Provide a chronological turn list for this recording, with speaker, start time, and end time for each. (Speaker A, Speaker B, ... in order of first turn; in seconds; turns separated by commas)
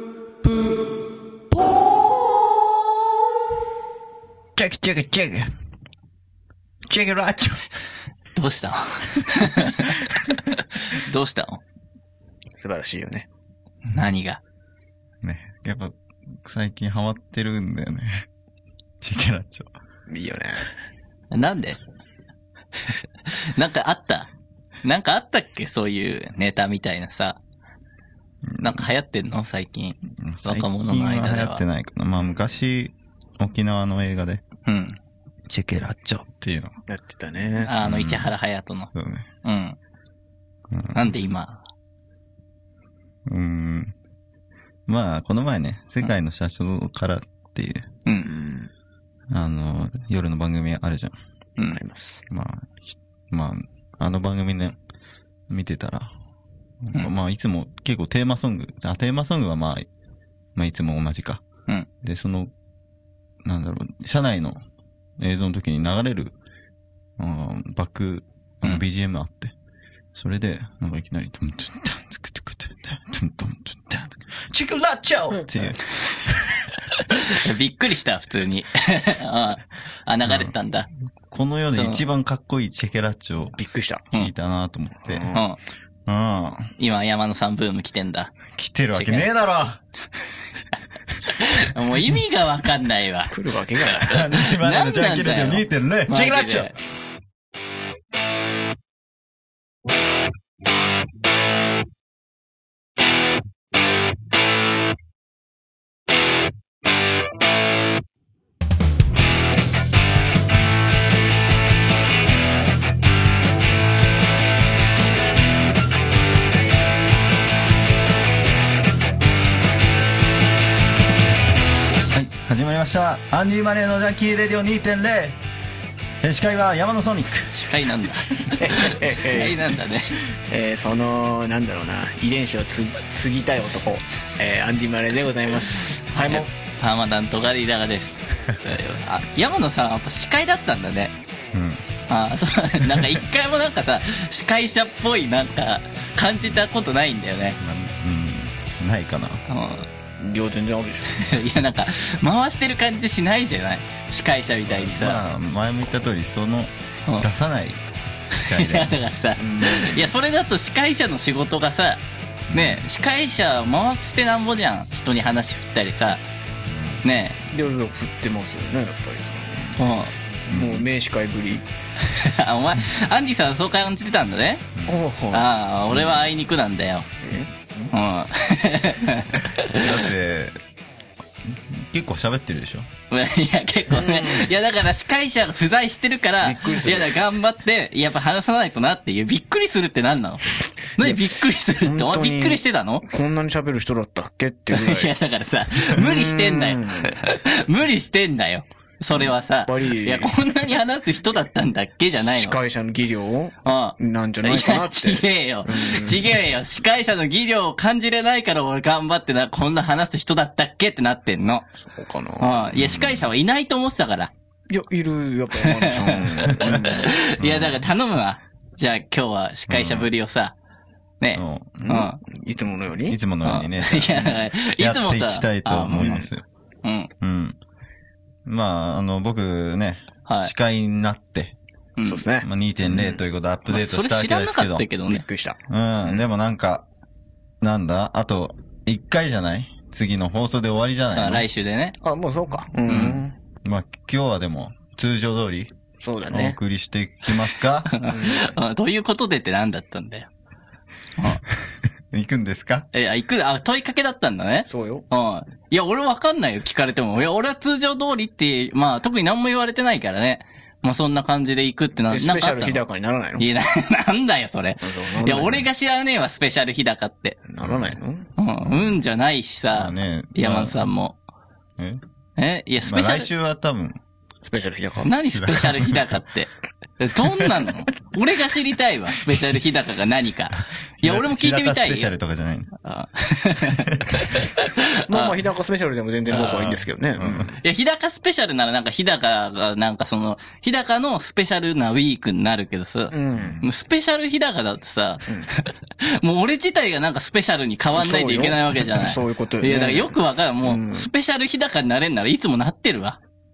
Speaker A: 0.4-0.8, Speaker A: 1.5-2.0, Speaker A: 4.5-5.5, Speaker A: 6.9-7.6, Speaker B: 8.3-9.9, Speaker B: 10.5-11.6, Speaker C: 12.6-13.3, Speaker B: 13.9-14.4, Speaker A: 15.2-18.3, Speaker A: 19.0-19.7, Speaker C: 20.1-20.7, Speaker B: 21.3-21.8, Speaker B: 22.8-24.3, Speaker B: 24.8-27.4, Speaker A: 28.5-28.9, Speaker B: 28.6-31.6, Speaker A: 30.1-34.4, Speaker B: 34.6-35.0, Speaker A: 35.5-36.8, Speaker C: 36.9-37.7, Speaker B: 37.6-38.9, Speaker A: 37.8-38.3, Speaker A: 38.9-39.3, Speaker B: 39.4-39.8, Speaker A: 40.7-41.1, Speaker B: 40.9-41.6, Speaker A: 43.3-43.9, Speaker A: 44.9-47.9, Speaker C: 48.2-48.7, Speaker A: 49.3-51.2, Speaker C: 51.7-52.2, Speaker A: 52.3-54.8, Speaker A: 55.5-56.1, Speaker A: 56.8-59.9, Speaker A: 60.5-61.4, Speaker A: 62.0-62.5, Speaker A: 63.4-64.6, Speaker A: 65.2-66.3, Speaker A: 67.2-69.5, Speaker A: 70.1-76.6, Speaker B: 77.1-80.9, Speaker A: 80.3-80.5, Speaker A: 81.3-83.6, Speaker B: 81.7-82.0, Speaker C: 83.6-84.0, Speaker A: 84.1-85.4, Speaker C: 85.1-85.4, Speaker B: 85.3-85.6, Speaker A: 86.0-86.7, Speaker B: 86.8-88.4, Speaker A: 88.5-89.8, Speaker B: 88.9-89.3, Speaker B: 91.3-93.3, Speaker C: 93.3-94.2, Speaker A: 94.0-96.7, Speaker B: 94.1-96.7, Speaker A: 122.1-125.4, Speaker A: 126.2-127.5, Speaker B: 127.5-130.2, Speaker C: 128.5-129.7, Speaker C: 130.5-136.5, Speaker B: 136.1-141.1, Speaker A: 141.5-141.8, Speaker B: 142.1-147.6, Speaker A: 147.6-149.4, Speaker B: 149.5-149.9, Speaker C: 150.2-151.1, Speaker B: 151.1-155.2, Speaker A: 154.7-157.8, Speaker A: 158.4-159.8, Speaker B: 158.4-166.2, Speaker C: 159.4-159.9, Speaker A: 162.5-162.8, Speaker A: 166.6-167.0, Speaker B: 167.0-167.4, Speaker C: 167.4-169.8, Speaker B: 169.8-170.1, Speaker C: 170.5-171.6, Speaker A: 170.5-170.8, Speaker B: 172.1-174.7, Speaker C: 174.8-175.4, Speaker B: 175.3-177.1, Speaker A: 175.9-176.2, Speaker C: 177.2-177.5, Speaker B: 177.9-180.1, Speaker A: 179.7-180.6, Speaker A: 181.5-182.9, Speaker B: 183.1-193.0, Speaker C: 183.9-184.5, Speaker C: 186.4-187.1, Speaker C: 191.8-195.1, Speaker B: 194.7-202.6, Speaker C: 195.9-197.2, Speaker C: 199.7-200.3, Speaker C: 202.3-206.3, Speaker B: 203.6-211.7, Speaker C: 211.8-212.7, Speaker B: 212.4-214.3, Speaker A: 212.7-213.3, Speaker C: 214.7-217.2, Speaker B: 215.6-220.5, Speaker A: 217.4-217.8, Speaker A: 219.7-220.1, Speaker B: 221.2-222.2, Speaker A: 221.3-222.1, Speaker C: 221.8-223.2, Speaker A: 223.1-226.4, Speaker B: 223.4-226.2, Speaker C: 226.0-226.3, Speaker B: 226.8-227.1, Speaker A: 227.2-227.6, Speaker A: 228.4-231.6, Speaker B: 230.3-230.5, Speaker B: 232.0-232.2, Speaker C: 232.0-233.2, Speaker A: 232.4-234.9, Speaker B: 233.7-235.2, Speaker C: 235.1-236.2, Speaker A: 235.7-236.8, Speaker A: 237.6-241.4, Speaker B: 241.1-242.0, Speaker C: 242.0-243.3, Speaker B: 242.9-243.2, Speaker A: 243.6-245.7, Speaker C: 246.0-246.6, Speaker A: 246.3-247.9, Speaker B: 247.9-250.3, Speaker C: 248.0-248.5, Speaker A: 252.1-252.9, Speaker B: 252.9-262.8, Speaker C: 254.7-255.0, Speaker C: 262.1-263.4, Speaker B: 263.4-267.4, Speaker C: 264.8-265.6, Speaker C: 267.5-268.3, Speaker A: 267.6-267.9, Speaker B: 268.4-271.2, Speaker A: 268.6-268.9, Speaker A: 269.7-270.8, Speaker A: 271.8-272.0, Speaker B: 272.4-273.3, Speaker A: 272.8-274.0, Speaker C: 274.4-275.1, Speaker B: 275.0-282.1, Speaker A: 275.3-276.2, Speaker A: 281.0-282.7, Speaker B: 282.8-285.4, Speaker A: 283.6-284.1, Speaker C: 285.0-287.6, Speaker B: 286.3-286.7, Speaker A: 286.5-287.5, Speaker B: 287.6-303.2, Speaker C: 293.1-293.6, Speaker A: 293.4-293.6, Speaker C: 297.9-301.1